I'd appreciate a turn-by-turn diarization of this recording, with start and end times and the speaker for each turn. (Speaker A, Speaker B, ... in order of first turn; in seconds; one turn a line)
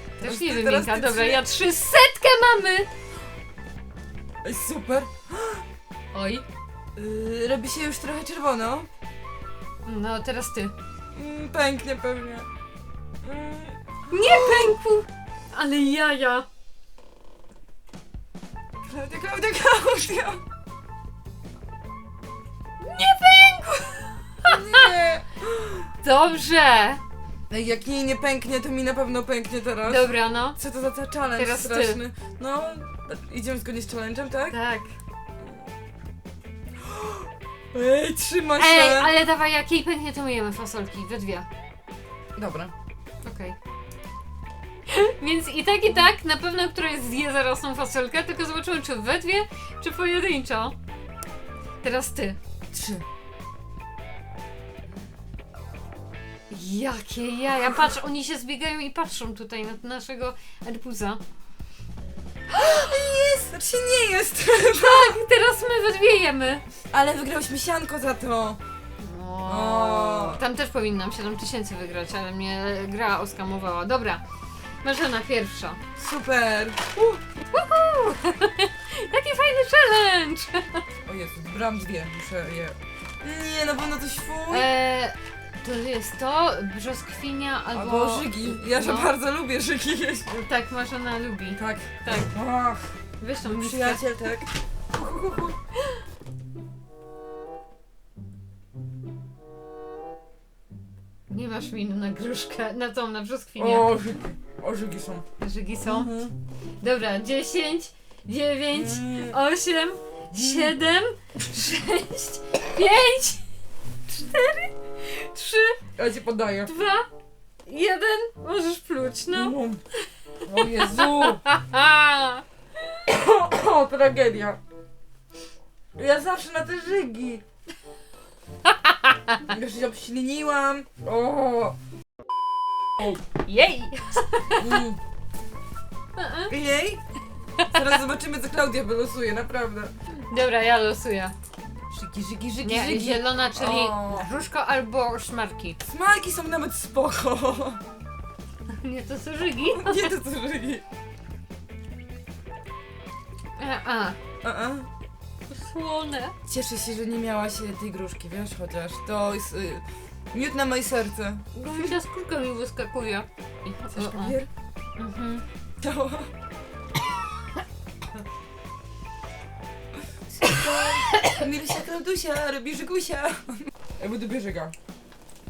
Speaker A: 0.2-1.4
Speaker B: 0.2-2.9
Speaker A: 4.4-5.6
Speaker B: 6.1-6.4
Speaker A: 7.0-8.9
Speaker B: 9.8-10.7
Speaker A: 11.1-12.5
Speaker A: 13.2-14.8
Speaker B: 14.1-16.5
Speaker A: 18.8-20.4
Speaker B: 22.8-24.9
Speaker A: 24.4-25.9
Speaker B: 26.0-27.0
Speaker A: 27.5-34.6
Speaker B: 29.9-30.6
Speaker B: 31.4-32.0
Speaker B: 34.5-34.9
Speaker A: 36.8-39.1
Speaker B: 38.6-41.5
Speaker A: 42.4-42.7
Speaker B: 43.2-43.6
Speaker B: 44.9-50.8
Speaker B: 51.8-52.4
Speaker A: 52.7-53.0
Speaker B: 56.5-61.2
Speaker A: 62.5-65.2
Speaker B: 64.7-66.6
Speaker A: 66.9-68.6
Speaker B: 69.0-74.2
Speaker A: 69.5-70.4
Speaker B: 74.8-75.8
Speaker A: 76.0-77.2
Speaker B: 77.5-80.8
Speaker A: 81.0-84.7
Speaker B: 84.5-89.1
Speaker A: 87.7-90.4
Speaker B: 90.3-92.3
Speaker A: 91.5-95.5
Speaker B: 93.2-94.0
Speaker B: 101.3-103.9
Speaker A: 103.6-105.2
Speaker B: 105.4-106.2
Speaker A: 105.8-106.3
Speaker B: 106.8-113.5
Speaker A: 108.7-109.4
Speaker A: 110.3-110.7
Speaker B: 114.1-115.8
Speaker A: 116.0-116.7
Speaker B: 116.7-117.1
Speaker B: 117.7-119.5
Speaker A: 119.3-119.8
Speaker A: 120.4-121.4
Speaker B: 120.6-122.4
Speaker A: 123.0-124.6
Speaker A: 126.0-127.4
Speaker B: 128.7-129.4
Speaker A: 129.4-131.8
Speaker B: 133.0-134.8
Speaker A: 134.6-135.0
Speaker B: 136.2-136.5
Speaker A: 136.5-137.0
Speaker A: 137.6-139.9
Speaker B: 140.1-141.3
Speaker A: 141.9-144.3
Speaker B: 142.6-145.8
Speaker A: 145.8-147.8
Speaker B: 148.7-150.1
Speaker A: 149.6-150.8
Speaker B: 153.6-154.2
Speaker A: 154.4-154.9
Speaker B: 155.5-156.3
Speaker A: 156.5-161.9
Speaker B: 161.5-164.4
Speaker A: 163.9-164.5
Speaker B: 165.0-165.4
Speaker A: 165.8-166.3
Speaker A: 170.4-174.7
Speaker B: 170.4-171.4